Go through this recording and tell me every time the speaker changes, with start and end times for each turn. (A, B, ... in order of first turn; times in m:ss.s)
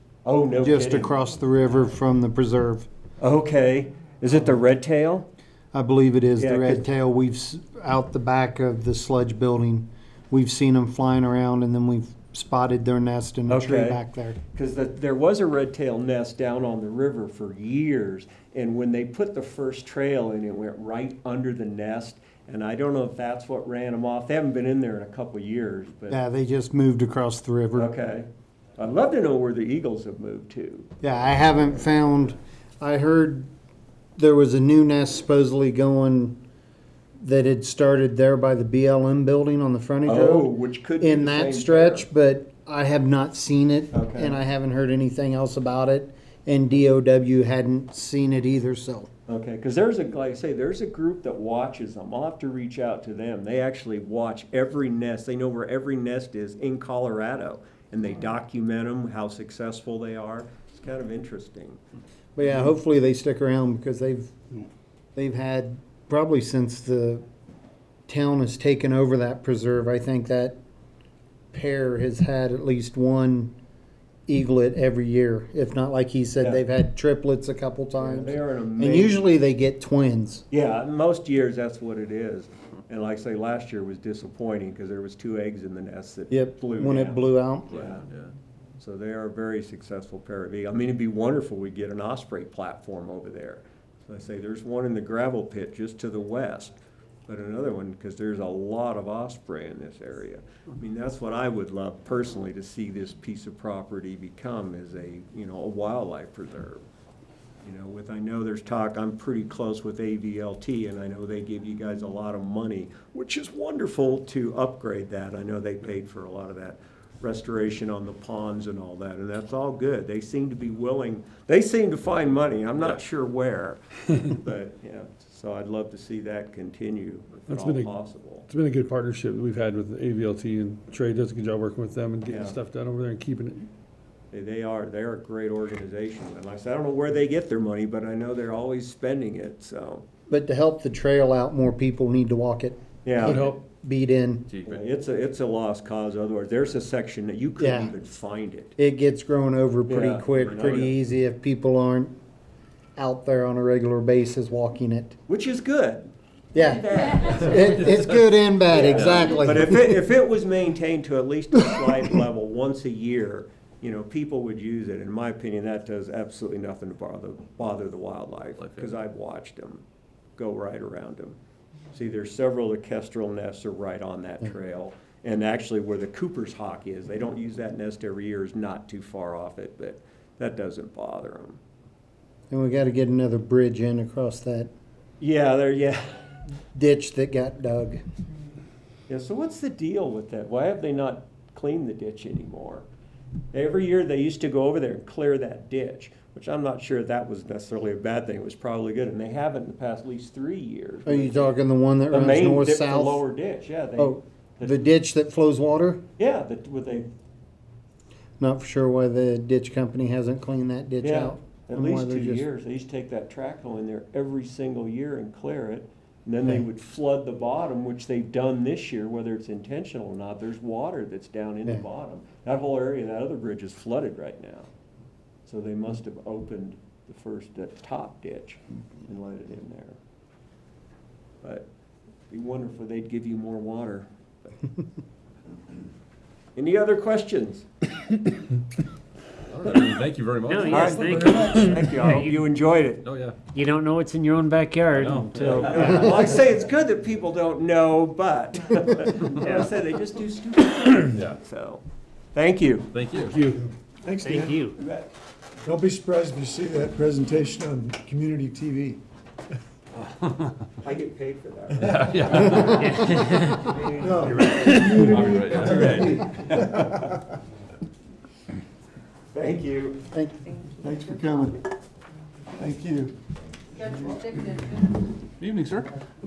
0:00.2-0:01.1 A
0:00.6-0:02.9 B
0:03.2-0:05.3 A
0:05.7-0:14.4 B
0:06.4-0:06.8 A
0:13.5-0:14.0 A
0:14.5-0:26.2 A
0:26.1-0:27.9 B
0:27.7-0:31.1 A
0:31.0-0:33.5 B
0:34.2-0:36.4 B
0:37.2-0:49.1 B
0:40.0-0:42.1 A
0:43.9-0:44.4 A
0:49.3-1:01.8 A
1:02.4-1:04.5 B
1:05.1-1:07.2 B
1:08.1-1:10.6 B
1:11.5-1:13.5 B
1:14.3-1:20.4 B
1:18.0-1:19.2 A
1:20.5-1:28.1 A
1:26.3-1:27.7 B
1:27.7-1:28.3 C
1:28.8-1:36.7 A
1:37.3-1:46.8 A
1:47.6-2:08.4 A
2:07.5-2:07.9 D
2:08.5-2:13.7 D
2:12.3-2:12.6 A
2:14.3-2:20.0 A
2:20.3-2:24.4 B
2:23.0-2:23.5 A
2:23.2-2:23.6 D
2:24.5-2:24.8 C
2:24.6-2:28.7 A
2:27.6-2:27.9 B
2:28.8-2:32.1 B
2:29.9-2:30.9 A
2:33.0-2:35.2 B
2:35.3-2:38.2 A
2:36.5-2:40.0 B
2:38.7-2:49.8 A
2:50.4-2:51.4 A
2:51.9-3:01.6 A
3:02.5-3:04.7 B
3:05.2-3:06.0 A
3:06.7-3:08.0 B
3:09.1-3:12.8 A
3:13.5-3:21.5 A
3:21.0-3:23.2 B
3:22.1-3:24.7 A
3:24.0-3:26.0 B
3:26.2-3:27.1 A
3:28.4-3:32.4 B
3:31.0-3:44.7 A
3:45.4-3:50.0 A
3:52.3-3:54.1 A
3:56.6-3:57.6 A
3:59.6-4:01.3 C
4:00.5-4:02.4 E
4:00.7-4:03.0 A
4:03.0-4:03.4 C
4:03.5-4:06.1 E
4:05.0-4:05.9 C
4:05.4-4:11.8 A
4:09.4-4:09.7 E
4:12.3-4:12.9 A
4:12.9-4:13.4 C
4:13.1-4:13.6 D
4:14.0-4:14.7 F
4:14.2-4:14.8 E
4:15.6-4:19.0 F
4:20.2-4:20.5 C
4:20.8-4:22.9 A
4:21.9-4:22.9 C
4:22.1-4:22.6 F
4:22.5-4:23.8 E
4:23.7-4:24.1 A
4:23.9-4:27.2 F
4:24.3-4:25.0 E
4:25.1-4:26.6 C
4:29.3-4:30.0 A
4:30.1-4:30.4 B
4:30.8-4:31.3 A
4:32.6-4:33.1 F
4:35.4-4:35.8 C